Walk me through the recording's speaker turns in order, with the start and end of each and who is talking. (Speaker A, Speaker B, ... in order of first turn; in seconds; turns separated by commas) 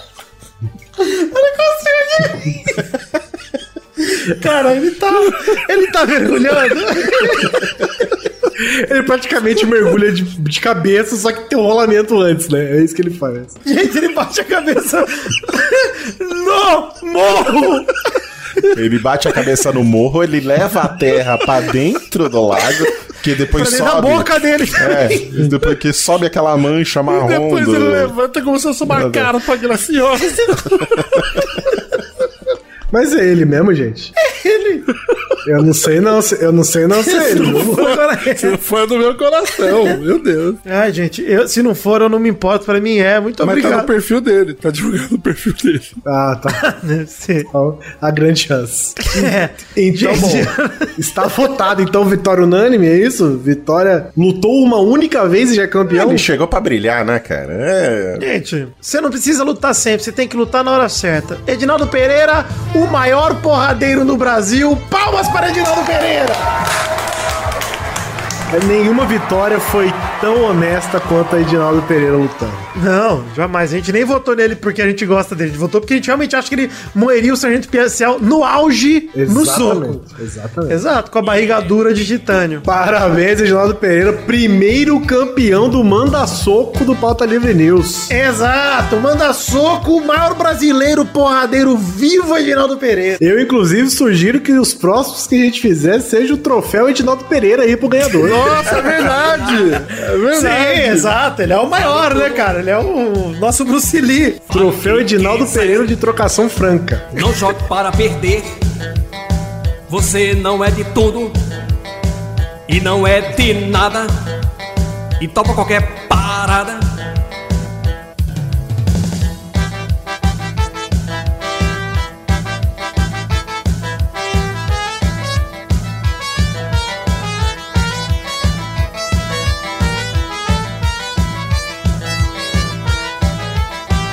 Speaker A: 1.0-2.9, Speaker A: 4.0-7.9, Speaker B: 8.6-13.6, Speaker A: 13.7-18.0, Speaker C: 18.7-28.1, Speaker A: 23.5-25.3, Speaker D: 27.1-30.7, Speaker C: 28.9-29.3, Speaker A: 30.2-30.7, Speaker B: 32.9-34.1, Speaker A: 34.2-34.9, Speaker B: 35.5-38.0, Speaker A: 37.0-38.5, Speaker D: 37.4-40.6, Speaker A: 40.6-43.9, Speaker D: 43.4-46.0, Speaker B: 46.0-46.6, Speaker A: 46.6-47.5, Speaker B: 47.5-56.3, Speaker A: 49.1-50.9, Speaker C: 55.9-58.3, Speaker A: 58.2-66.5, Speaker B: 68.5-72.7, Speaker A: 72.8-80.0, Speaker B: 79.2-80.8, Speaker A: 80.7-82.7, Speaker B: 82.7-88.1, Speaker A: 88.1-93.2, Speaker B: 93.2-98.7, Speaker D: 98.2-101.1, Speaker A: 100.3-104.5, Speaker E: 102.0-102.4, Speaker E: 104.5-106.0, Speaker B: 104.5-107.1, Speaker E: 107.1-108.6, Speaker E: 109.9-111.4, Speaker E: 112.7-114.1, Speaker E: 115.2-116.9